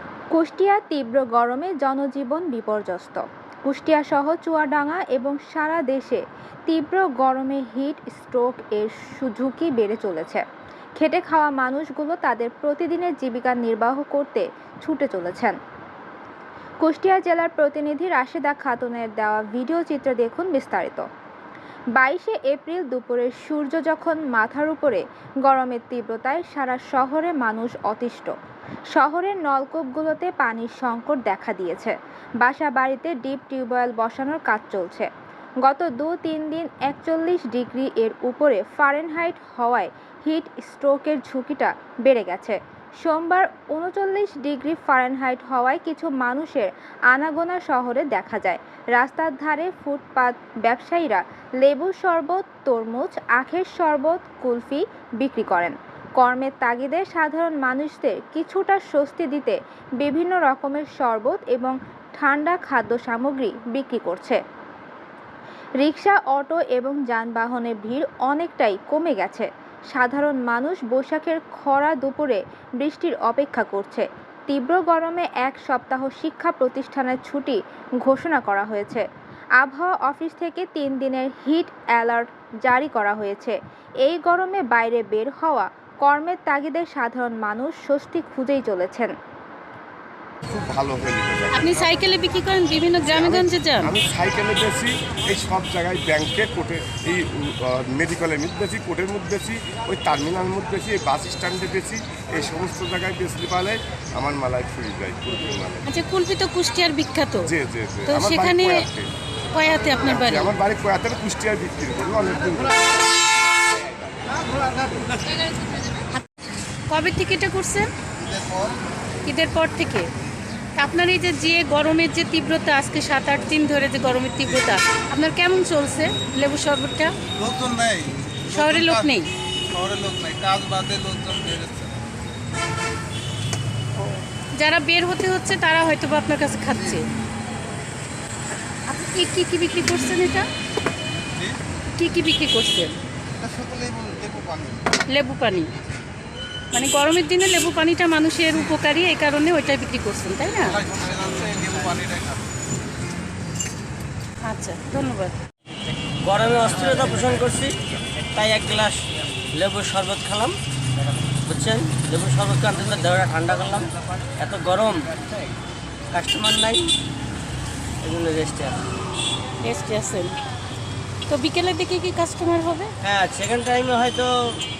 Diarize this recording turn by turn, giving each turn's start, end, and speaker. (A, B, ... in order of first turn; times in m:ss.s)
0:00.3-0:10.4 A
0:11.0-0:15.6 A
0:16.8-0:21.0 A
0:22.0-0:28.3 A
0:29.0-0:35.1 A
0:35.6-1:04.4 A
1:05.8-1:19.0 A
1:19.6-1:29.1 A
1:30.5-1:31.9 B
1:31.5-1:33.9 C
1:33.1-1:45.9 B
1:45.9-1:47.5 C
1:47.4-1:49.1 B
1:48.1-1:48.9 C
1:49.5-1:50.5 C
1:50.0-1:52.8 B
1:56.9-1:57.9 C
1:58.2-1:58.8 D
1:59.2-2:00.1 C
2:00.8-2:07.1 C
2:07.3-2:09.2 D
2:08.5-2:09.3 C
2:09.7-2:12.0 D
2:14.0-2:17.0 C
2:18.9-2:20.4 C
2:22.0-2:23.0 C
2:23.4-2:24.8 D
2:25.1-2:25.7 C
2:26.7-2:30.8 C
2:30.6-2:32.5 D
2:34.4-2:35.3 C
2:36.2-2:37.8 E
2:38.3-2:40.6 E
2:41.4-2:45.1 E
2:46.1-2:46.9 E
2:48.0-2:48.8 E
2:49.6-2:50.3 C
2:51.3-2:52.9 C
2:53.0-2:54.6 E